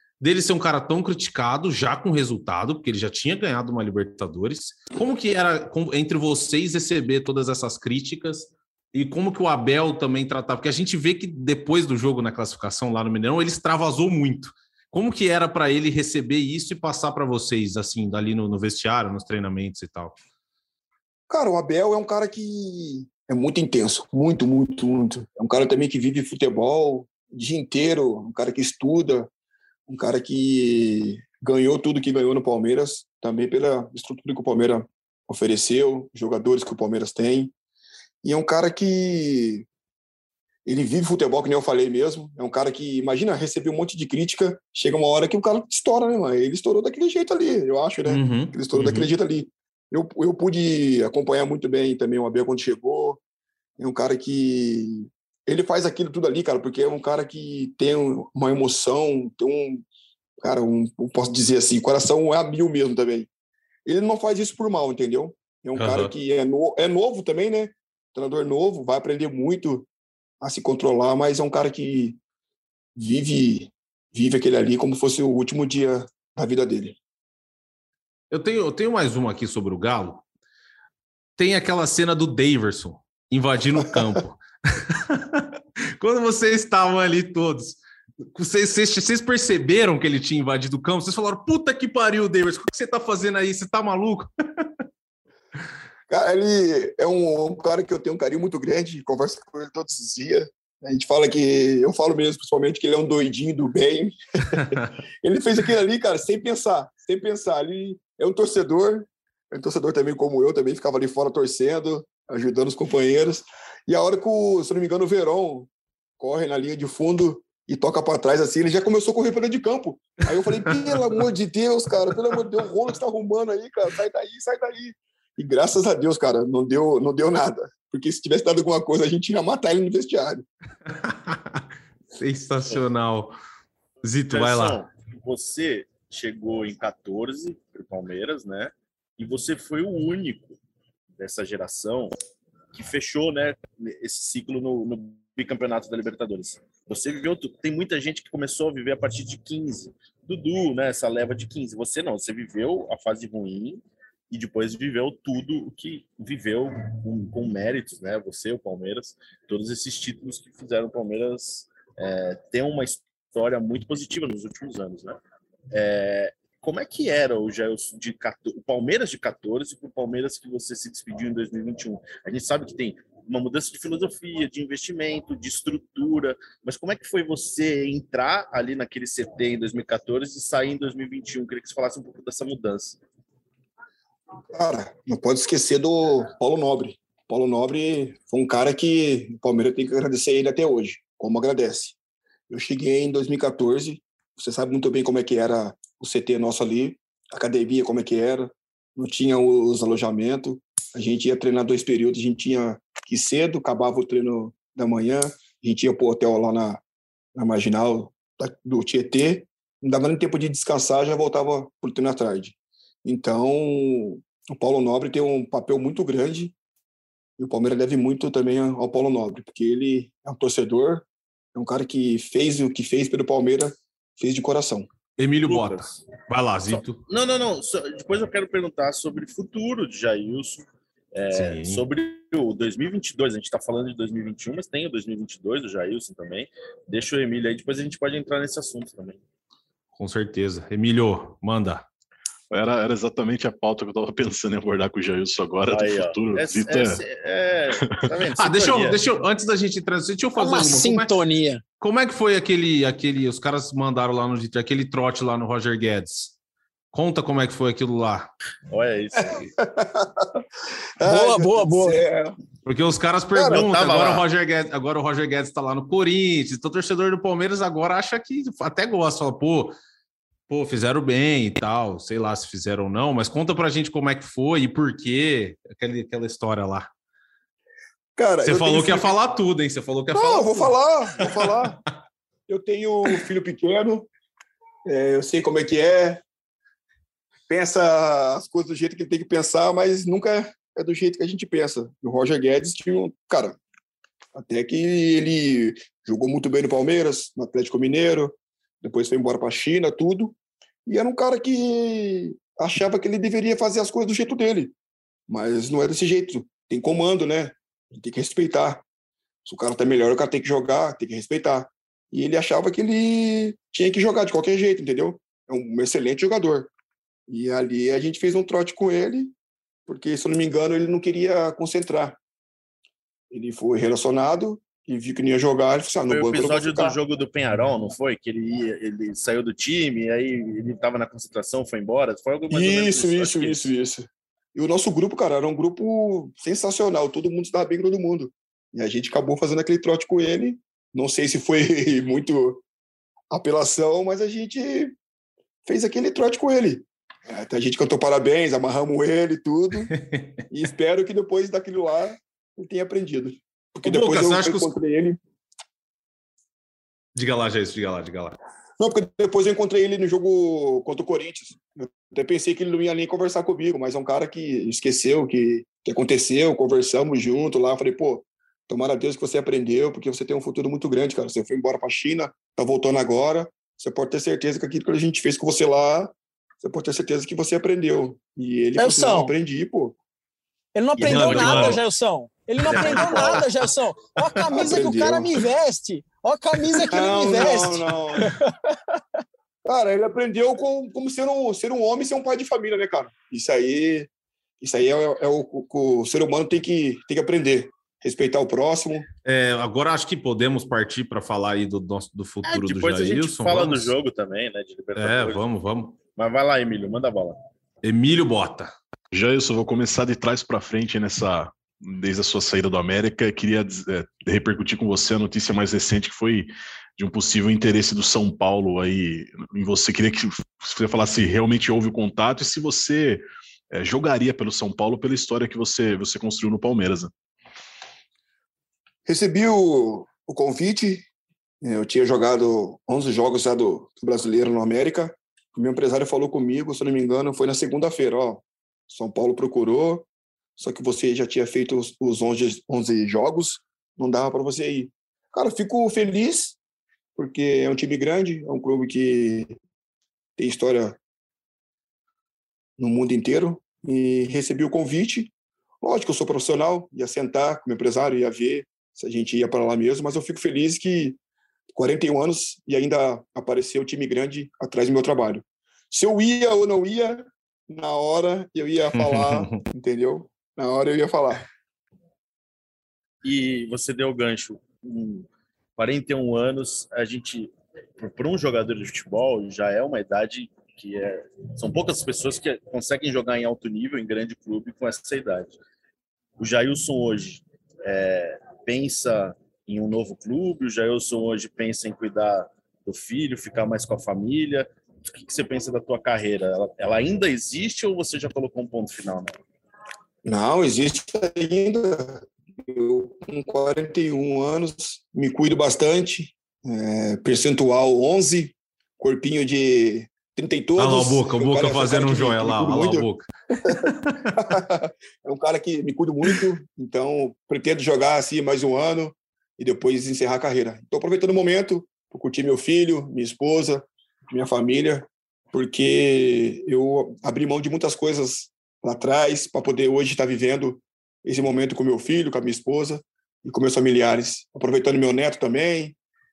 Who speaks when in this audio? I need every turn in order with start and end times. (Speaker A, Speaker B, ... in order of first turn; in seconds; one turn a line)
Speaker A: 0.2-20.1
Speaker B: 21.3-29.3
Speaker B: 29.9-37.5
Speaker B: 38.2-39.6
Speaker B: 40.6-53.2
Speaker A: 48.0-49.1
Speaker B: 53.8-59.8
Speaker B: 60.4-63.3
Speaker B: 63.9-69.9
Speaker A: 65.8-66.1
Speaker B: 70.4-72.2
Speaker B: 73.0-77.0
Speaker A: 78.3-80.2
Speaker A: 81.4-87.8
Speaker A: 88.3-94.7
Speaker B: 96.1-130.4
Speaker A: 130.9-133.3
Speaker A: 134.0-134.8
Speaker C: 134.3-140.6
Speaker C: 141.2-142.1
Speaker C: 142.7-165.2
Speaker C: 165.7-183.0
Speaker B: 184.5-192.0
Speaker B: 192.5-206.8
Speaker B: 207.3-216.5
Speaker B: 217.4-224.9
Speaker A: 225.2-227.0
Speaker C: 225.4-226.0
Speaker C: 226.7-239.2
Speaker A: 231.3-231.8
Speaker A: 240.0-241.8
Speaker D: 242.5-247.0
Speaker C: 245.7-249.0
Speaker A: 248.4-251.1
Speaker E: 250.4-251.6
Speaker A: 251.8-256.3
Speaker A: 256.9-258.3
Speaker C: 258.7-259.4
Speaker B: 259.2-260.4
Speaker B: 261.0-262.4
Speaker E: 261.0-262.0
Speaker A: 262.6-269.7
Speaker B: 263.3-263.6
Speaker C: 263.5-264.2
Speaker A: 270.5-276.9
Speaker B: 278.1-279.1
Speaker A: 278.4-280.7
Speaker B: 280.1-281.8
Speaker B: 282.5-284.1
Speaker B: 284.9-286.2
Speaker B: 287.5-293.6
Speaker B: 294.3-304.7
Speaker B: 305.3-308.8
Speaker B: 309.4-316.7
Speaker B: 317.3-319.3
Speaker B: 319.9-322.2
Speaker B: 323.3-327.0
Speaker C: 326.1-333.7
Speaker B: 332.5-342.6
Speaker B: 343.3-344.9
Speaker B: 345.6-349.9
Speaker A: 349.9-350.4
Speaker B: 350.5-355.2
Speaker A: 353.8-354.7
Speaker A: 357.1-358.4
Speaker B: 358.8-380.0
Speaker E: 378.8-379.3
Speaker E: 380.7-388.5
Speaker C: 381.0-381.8
Speaker A: 381.1-381.8
Speaker A: 382.7-383.4
Speaker C: 382.7-383.4
Speaker B: 384.5-385.3
Speaker B: 386.9-388.3
Speaker B: 389.6-399.1
Speaker A: 399.2-403.9
Speaker C: 402.4-405.4
Speaker A: 405.0-405.9
Speaker C: 406.1-407.4
Speaker A: 407.8-408.7
Speaker D: 409.1-427.1
Speaker B: 429.0-431.1
Speaker B: 431.6-446.6
Speaker B: 447.1-449.5
Speaker B: 450.4-451.0
Speaker B: 452.8-461.2
Speaker B: 461.7-471.5
Speaker A: 468.9-469.6
Speaker C: 473.2-485.6
Speaker C: 486.4-499.4
Speaker B: 500.2-513.1
Speaker A: 510.8-514.4
Speaker B: 513.6-536.0